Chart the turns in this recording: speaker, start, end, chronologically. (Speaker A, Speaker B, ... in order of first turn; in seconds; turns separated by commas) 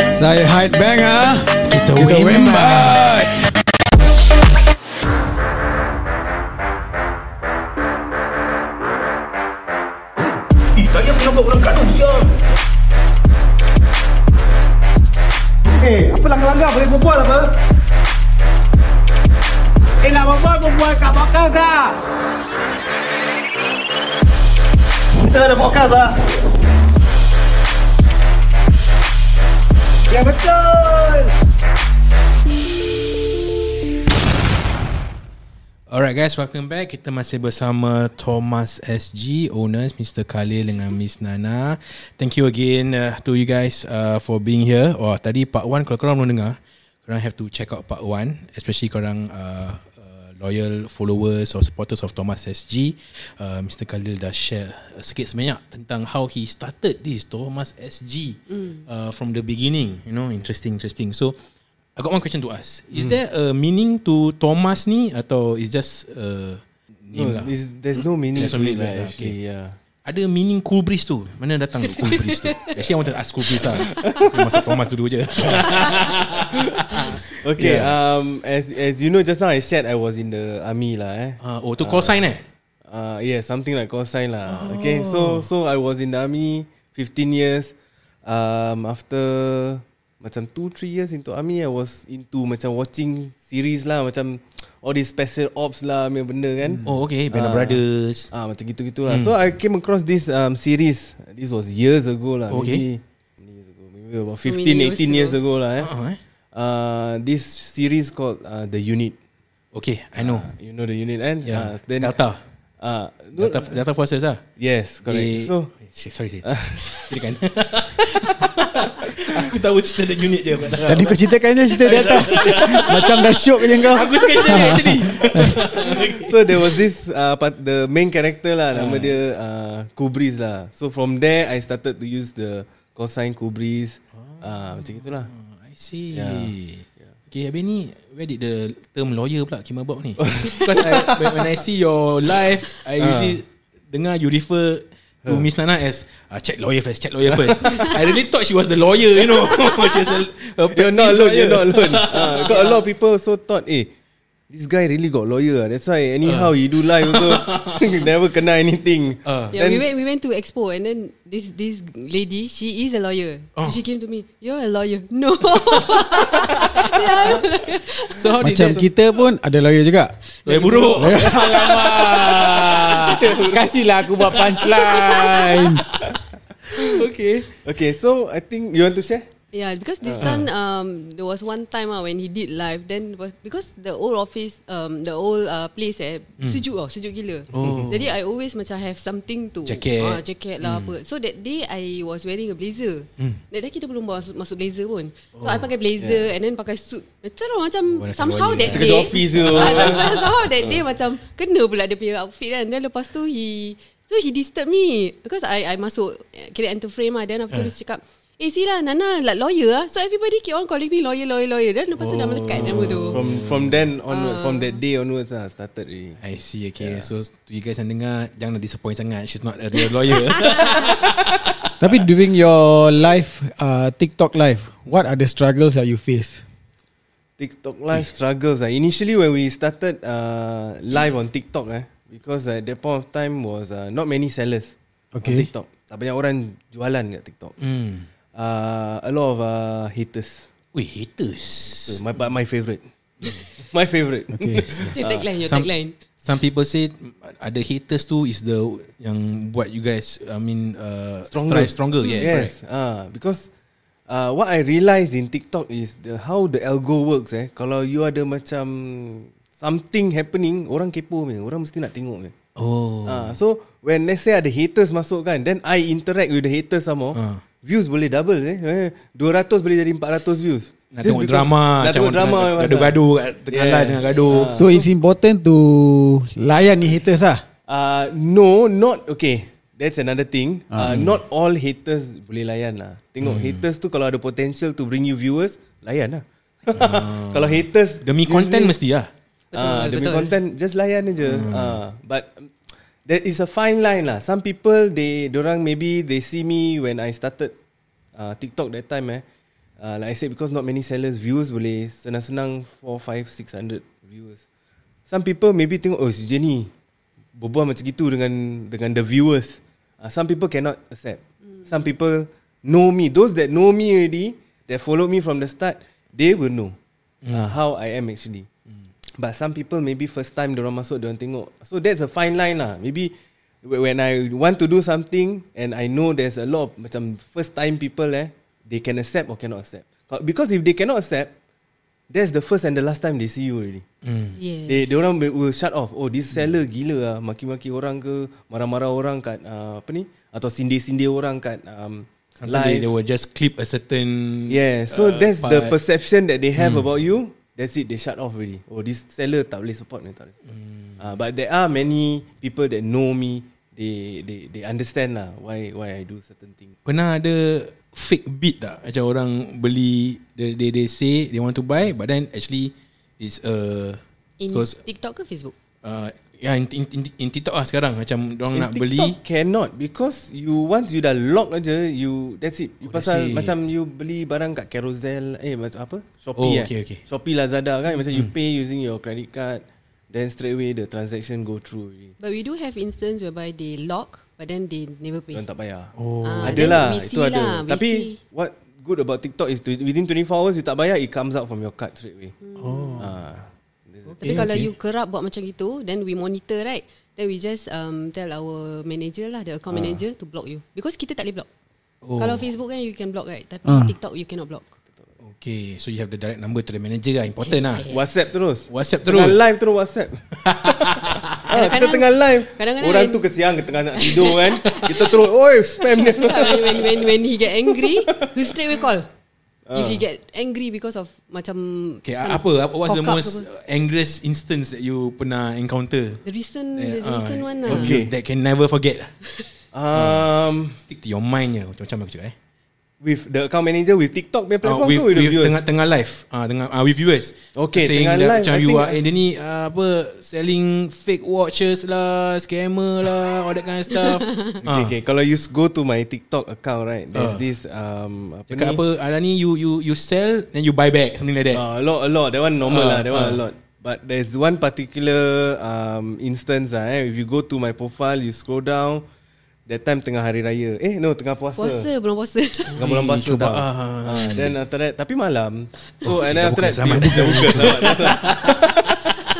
Speaker A: 0.1-3.3, Speaker B: 1.6-3.2, Speaker C: 10.9-12.2, Speaker D: 16.1-17.4, Speaker D: 20.1-21.4, Speaker C: 20.4-21.6, Speaker C: 25.3-26.1, Speaker D: 25.4-26.0, Speaker D: 30.1-31.2, Speaker B: 35.9-61.4, Speaker E: 58.5-58.8, Speaker B: 62.0-69.3, Speaker D: 67.1-69.8, Speaker B: 70.0-78.0, Speaker E: 72.0-72.7, Speaker D: 73.9-74.7, Speaker D: 75.4-75.8, Speaker E: 75.5-76.0, Speaker D: 76.5-82.3, Speaker B: 81.4-82.4, Speaker D: 82.8-105.9, Speaker B: 84.5-85.5, Speaker B: 96.7-98.3, Speaker B: 99.0-99.3, Speaker B: 102.5-102.8, Speaker E: 104.4-105.4, Speaker B: 105.8-106.2, Speaker D: 106.5-109.2, Speaker B: 109.7-110.5, Speaker D: 110.2-112.2, Speaker B: 111.4-112.4, Speaker D: 112.8-113.8, Speaker B: 113.4-114.4, Speaker D: 114.6-115.7, Speaker B: 115.0-126.8, Speaker D: 116.4-117.1, Speaker D: 119.0-119.5, Speaker A: 120.8-125.6, Speaker D: 121.9-122.8, Speaker D: 125.8-135.3, Speaker B: 128.7-129.1, Speaker B: 134.2-152.7, Speaker D: 136.1-136.5, Speaker D: 140.2-141.4, Speaker D: 143.0-143.4, Speaker D: 147.3-147.9, Speaker D: 150.7-153.9, Speaker E: 152.2-152.8, Speaker D: 154.5-159.8, Speaker B: 156.2-158.1, Speaker B: 159.2-159.6, Speaker E: 159.5-168.3, Speaker B: 165.9-166.4, Speaker B: 168.1-168.9, Speaker A: 168.4-170.2, Speaker E: 170.4-171.5, Speaker B: 170.4-173.5, Speaker A: 170.9-172.0, Speaker D: 171.4-173.7, Speaker A: 173.2-175.8, Speaker B: 174.2-176.1, Speaker E: 174.9-175.4, Speaker B: 176.7-177.5, Speaker D: 177.6-179.3, Speaker E: 179.5-213.3, Speaker D: 180.0-180.3, Speaker B: 180.2-180.5, Speaker B: 187.5-188.1, Speaker B: 189.7-190.9, Speaker B: 195.3-195.7, Speaker D: 196.0-196.3, Speaker B: 197.9-200.2, Speaker D: 198.6-200.8, Speaker B: 212.0-213.9, Speaker D: 213.1-216.2, Speaker E: 214.1-214.8, Speaker B: 216.2-221.2, Speaker D: 216.8-217.1, Speaker E: 220.5-220.8, Speaker A: 221.8-226.4, Speaker D: 227.4-237.6, Speaker A: 235.1-235.5, Speaker B: 237.6-238.1, Speaker D: 238.3-240.5, Speaker B: 240.7-242.0, Speaker D: 241.7-242.8, Speaker D: 243.5-245.2, Speaker A: 244.3-244.8, Speaker B: 244.5-245.7, Speaker E: 244.9-246.0, Speaker B: 246.2-252.5, Speaker D: 251.3-253.5, Speaker E: 252.0-252.3, Speaker D: 254.1-262.3, Speaker B: 262.6-263.4, Speaker D: 263.1-273.0, Speaker B: 267.1-267.4, Speaker B: 270.9-274.6, Speaker D: 273.5-274.8, Speaker E: 274.1-274.5, Speaker A: 274.5-277.4, Speaker D: 277.7-288.8, Speaker A: 280.7-281.0, Speaker B: 280.8-281.2, Speaker B: 283.2-283.6, Speaker B: 286.7-289.1, Speaker E: 289.5-290.3, Speaker D: 289.5-292.5, Speaker B: 291.2-291.8, Speaker D: 293.0-297.5, Speaker D: 298.1-299.2, Speaker D: 299.8-304.4, Speaker D: 305.1-306.7, Speaker D: 307.4-316.8, Speaker B: 317.2-317.6, Speaker D: 317.3-318.5, Speaker D: 319.1-323.1, Speaker D: 323.6-331.3, Speaker D: 332.1-333.8, Speaker B: 334.0-334.4, Speaker E: 334.4-334.9, Speaker D: 334.7-342.9, Speaker B: 342.4-345.8, Speaker D: 344.5-350.3, Speaker B: 346.6-346.9, Speaker B: 350.5-351.0, Speaker D: 351.0-356.7, Speaker B: 356.8-364.8, Speaker E: 364.4-365.5, Speaker B: 365.8-369.1, Speaker D: 368.5-382.1, Speaker B: 372.8-373.5, Speaker B: 376.4-377.0, Speaker E: 382.2-385.4, Speaker D: 385.3-392.4, Speaker B: 385.9-386.8, Speaker E: 386.2-388.2, Speaker E: 392.4-393.0, Speaker B: 392.6-393.2, Speaker D: 393.0-394.5, Speaker B: 394.1-394.7, Speaker E: 394.2-401.5, Speaker D: 399.7-400.0, Speaker B: 402.0-402.4, Speaker E: 402.2-404.7, Speaker A: 403.6-403.9, Speaker B: 405.2-407.9, Speaker E: 407.4-408.1, Speaker D: 407.9-417.0, Speaker B: 408.7-409.4, Speaker B: 410.3-411.4, Speaker E: 411.5-413.3, Speaker E: 414.0-414.8, Speaker E: 415.9-419.1, Speaker D: 418.0-418.4, Speaker D: 419.7-420.0, Speaker E: 419.7-423.4, Speaker B: 422.0-426.2, Speaker E: 426.2-428.0, Speaker B: 426.8-429.1, Speaker D: 427.7-428.1, Speaker D: 429.7-430.8, Speaker B: 429.9-432.3, Speaker D: 433.0-435.6, Speaker B: 434.6-444.9, Speaker D: 437.5-439.0, Speaker E: 443.9-444.6, Speaker D: 444.6-448.8, Speaker B: 447.1-447.4, Speaker B: 448.5-451.6, Speaker D: 451.5-459.0, Speaker B: 452.6-453.4, Speaker D: 459.7-461.9, Speaker E: 461.6-462.8, Speaker B: 462.7-464.6, Speaker D: 462.8-469.0, Speaker B: 466.0-469.2